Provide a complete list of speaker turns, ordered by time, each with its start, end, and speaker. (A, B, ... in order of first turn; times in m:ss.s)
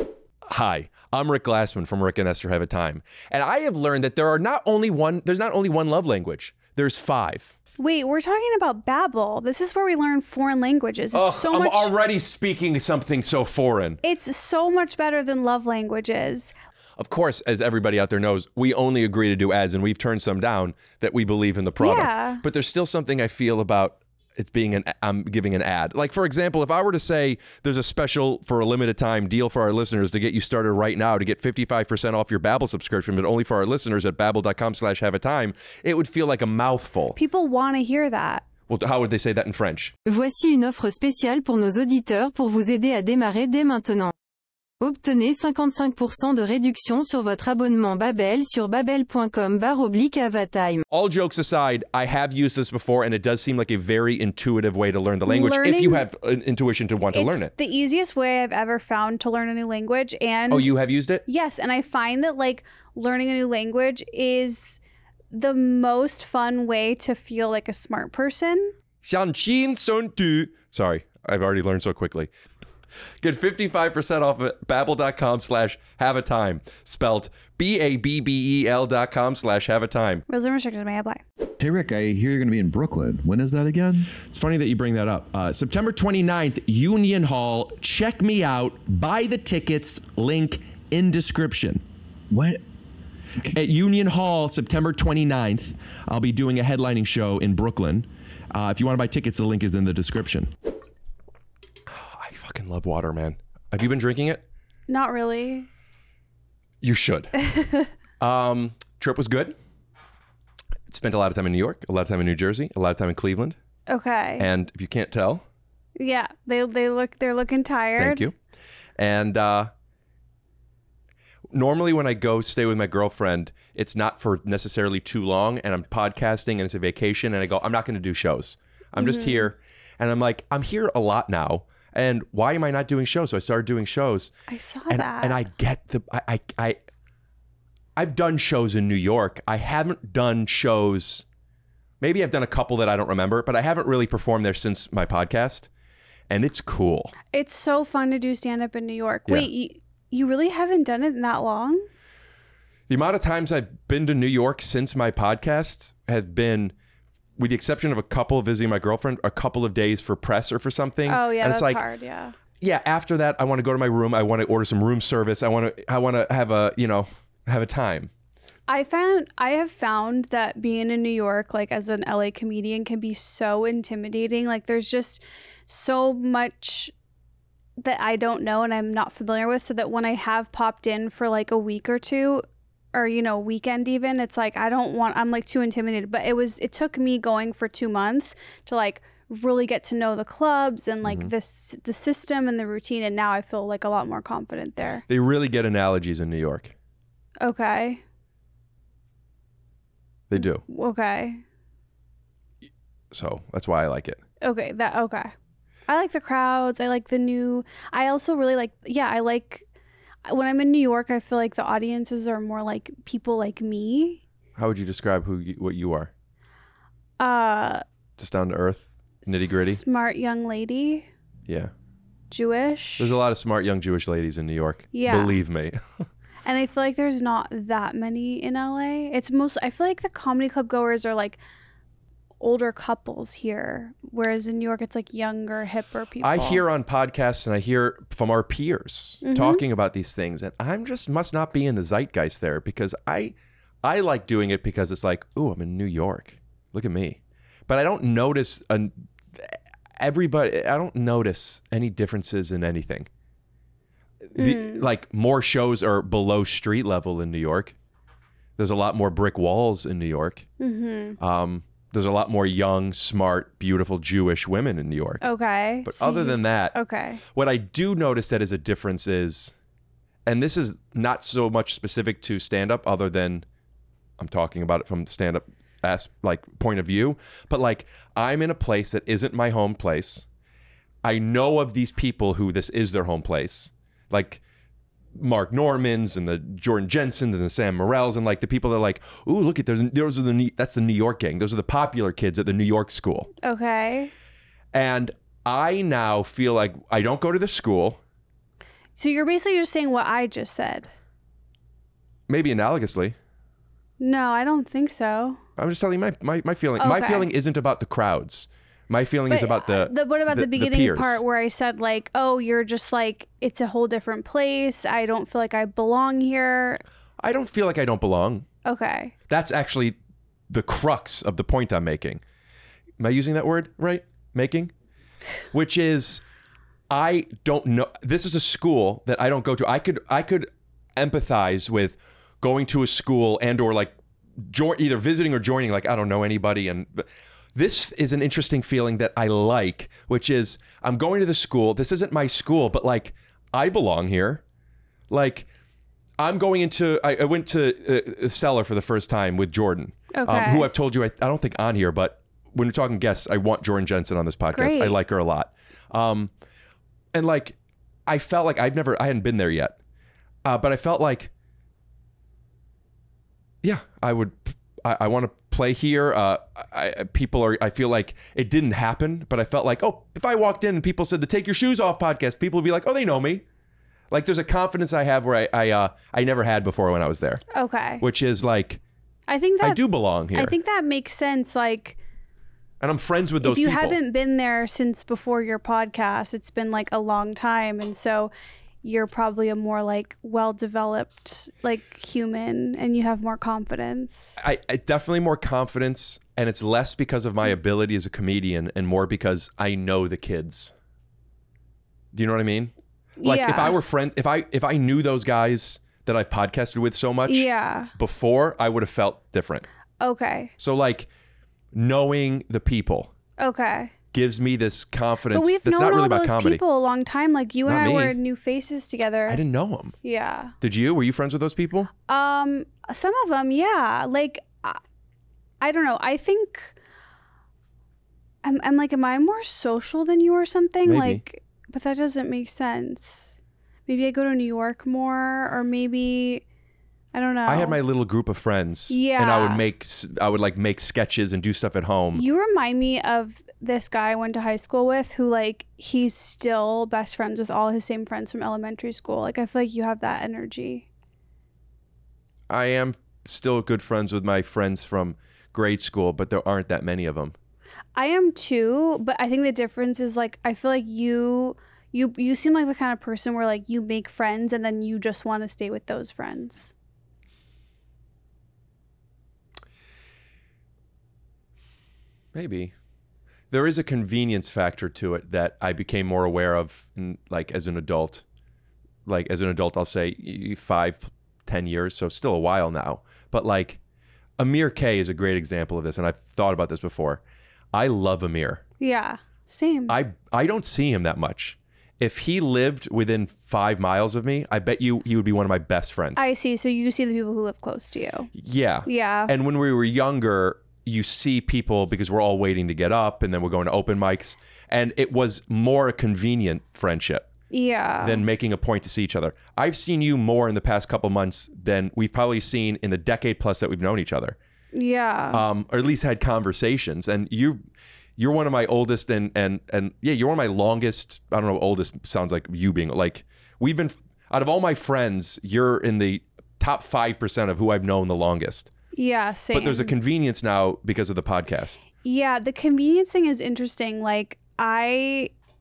0:00.5-0:07.5 A
0:07.8-0:11.9 B
0:11.1-0:14.0 A
0:14.0-0:16.5 B
0:17.0-0:37.2 A
0:21.8-0:22.4 B
0:37.2-0:38.4 B
0:38.7-0:40.0 A
0:40.1-0:44.1 C
0:44.8-0:50.8 C
0:50.9-0:57.5 A
0:55.3-0:56.0 B
0:57.1-1:00.7 B
1:00.5-1:01.2 A
1:01.2-1:04.8 B
1:05.3-1:08.7 B
1:09.0-1:12.3 A
1:13.2-1:20.2 A
1:20.3-1:21.2 B
1:21.6-1:24.1 D
1:24.1-1:31.8 A
1:32.3-1:32.6 D
1:33.5-1:40.5 A
1:41.9-1:44.4 A
1:44.9-1:45.7 B
1:46.8-1:47.3 A
1:47.5-1:47.9 B
1:48.2-1:49.6 A
1:50.9-1:53.6 A
1:53.9-1:54.5 B
1:54.4-1:55.4 A
1:56.0-1:58.3 B
1:58.0-1:58.4 A
1:59.0-1:59.7 A
2:01.5-2:14.3 A
2:09.0-2:09.5 B
2:14.5-2:15.4 B
2:14.9-2:16.8 A
2:18.0-2:21.2 A
2:22.0-2:25.7 A
2:26.3-2:27.1 A
2:27.3-2:31.9 B
2:32.9-2:36.7 A
2:37.4-2:41.8 A
2:41.1-2:42.4 B
2:42.6-2:48.1 A
2:48.7-2:56.9 B
2:57.8-3:15.0 B
3:11.0-3:11.3 A
3:15.1-3:16.7 A
3:17.4-3:18.0 B
3:20.3-3:20.6 A
3:20.4-3:21.4 B
3:23.1-3:24.2 A
3:24.4-3:25.3 B
3:25.9-3:29.6 B
3:30.3-3:34.2 B
3:34.6-3:36.1 A
3:37.2-3:37.8 B
3:38.2-3:39.8 A
3:39.2-3:41.1 B
3:41.5-3:41.7 A
3:42.3-3:43.1 B
3:43.0-3:45.8 A
3:44.9-3:45.4 B
3:46.4-3:51.4 B
3:52.4-3:56.6 B
3:56.2-4:13.1 A
3:59.2-3:59.6 B
4:14.3-4:17.8 A
4:14.4-4:14.8 B
4:18.6-4:20.4 A
4:20.6-4:21.2 B
4:21.2-4:25.2 A
4:25.2-4:27.2 B
4:25.8-4:26.8 A
4:27.3-4:29.5 A
4:30.3-4:33.4 A
4:34.2-4:40.2 A
4:41.0-4:44.4 A
4:45.1-4:53.3 A
4:53.4-4:54.1 B
4:54.7-4:58.0 A
4:59.0-5:00.9 B
5:02.3-5:03.2 A
5:04.0-5:05.4 B
5:05.6-5:11.2 A
5:06.8-5:07.3 B
5:09.3-5:16.8 B
5:17.2-5:18.5 A
5:18.6-5:19.1 B
5:19.3-5:20.0 A
5:20.5-5:22.2 A
5:23.0-5:24.7 A
5:25.5-5:26.2 A
5:26.9-5:44.4 A
5:45.1-5:45.5 A
5:46.2-5:56.3 A
5:50.1-5:50.7 B
5:54.5-5:55.0 B
5:57.1-5:59.8 A
6:00.4-6:01.3 A
6:03.6-6:13.4 A
6:14.1-6:17.4 A
6:17.5-6:18.0 B
6:18.0-6:18.8 A
6:19.3-6:19.8 B
6:19.6-6:20.6 A
6:20.3-6:22.0 B
6:22.8-6:24.0 A
6:23.4-6:28.3 B
6:28.8-6:34.4 B
6:34.4-6:40.7 A
6:42.1-6:42.7 A
6:43.2-6:43.8 B
6:43.2-6:49.7 A
6:47.3-6:47.9 B
6:50.0-6:50.5 B
6:50.6-6:51.1 A
6:51.7-6:53.1 A
6:53.4-6:53.9 B
6:54.1-6:56.6 A
6:55.3-6:59.4 B
6:57.7-6:58.2 A
6:59.3-7:00.0 A
7:00.0-7:00.5 B
7:00.6-7:01.9 A
7:02.1-7:04.8 B
7:05.6-7:06.8 B
7:08.4-7:16.4 B
7:10.8-7:11.2 A
7:17.1-7:17.8 B
7:17.5-7:22.2 A
7:18.9-7:19.6 B
7:22.1-7:30.9 B
7:32.5-7:37.4 A
7:38.0-7:46.7 B
7:52.3-7:52.7 A
7:53.5-7:58.2 A
7:59.1-8:03.8 A
8:04.4-8:07.2 A
8:07.7-8:08.6 A
8:08.8-8:10.0 B
8:09.9-8:16.3 A
8:16.2-8:18.3 B
8:18.3-8:27.3 A
8:18.8-8:19.3 B
8:27.5-8:28.2 B
8:28.0-8:34.4 A
8:34.7-8:35.4 B
8:35.3-8:37.6 A
8:38.2-8:48.7 A
8:48.9-8:50.0 B
8:49.5-8:51.8 A
8:52.0-8:55.3 B